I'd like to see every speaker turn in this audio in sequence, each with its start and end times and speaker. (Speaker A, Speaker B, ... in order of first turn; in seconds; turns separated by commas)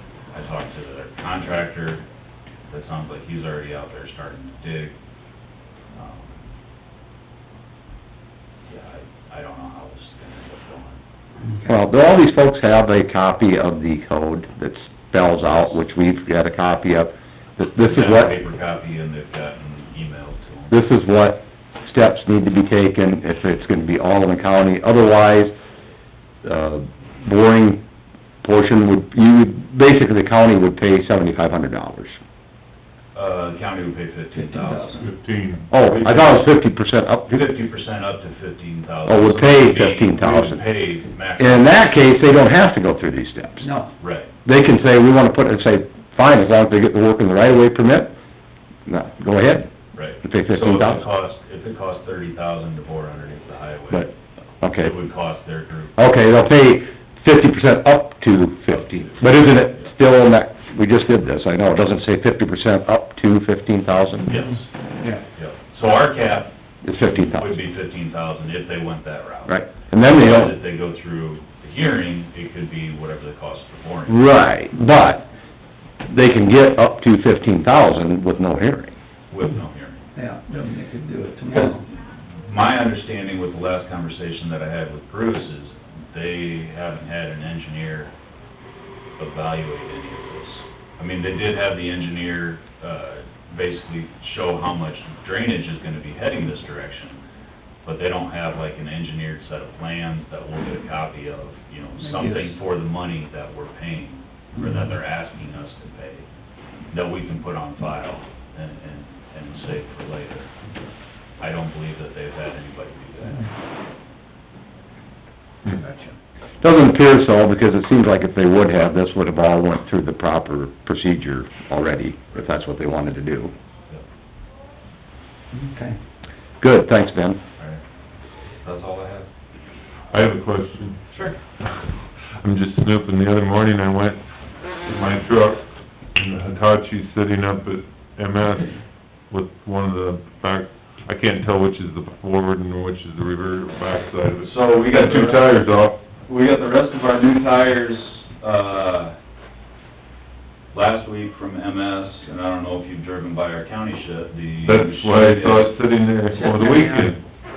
Speaker A: 0.3-2.0, Speaker A: 2.7-4.9, Speaker A: 5.9-6.4, Speaker A: 8.7-11.0, Speaker B: 11.6-18.4, Speaker A: 17.8-20.8, Speaker B: 20.7-25.5, Speaker B: 26.4-27.8, Speaker B: 28.4-32.1, Speaker A: 33.1-35.1, Speaker C: 34.3-35.1, Speaker D: 35.0-35.6, Speaker B: 35.7-37.3, Speaker A: 35.8-36.5, Speaker A: 37.3-42.3, Speaker B: 39.0-40.6, Speaker B: 41.4-43.7, Speaker C: 43.6-43.9, Speaker A: 44.0-44.3, Speaker B: 44.4-48.1, Speaker B: 48.9-51.0, Speaker A: 49.9-54.1, Speaker B: 53.9-54.9, Speaker A: 54.8-56.0, Speaker B: 56.0-64.4, Speaker A: 58.7-59.9, Speaker A: 64.3-64.7, Speaker A: 65.3-66.5, Speaker B: 66.8-67.5, Speaker A: 67.0-74.2, Speaker B: 69.5-70.5, Speaker B: 74.1-75.2, Speaker B: 76.0-78.9, Speaker A: 79.3-80.1, Speaker C: 80.1-81.8, Speaker A: 81.5-88.1, Speaker A: 89.2-97.2, Speaker A: 97.8-106.3, Speaker C: 102.0-102.5, Speaker A: 106.9-110.5, Speaker A: 111.4-113.5, Speaker C: 115.7-116.1, Speaker B: 116.6-123.5, Speaker C: 125.5-126.0, Speaker B: 126.6-127.4, Speaker A: 128.6-129.3, Speaker D: 130.1-131.1, Speaker A: 131.1-131.4, Speaker D: 131.6-146.0, Speaker A: 144.4-145.5, Speaker A: 146.2-149.2, Speaker A: 150.7-155.7, Speaker D: 154.7-157.2, Speaker C: 156.3-157.1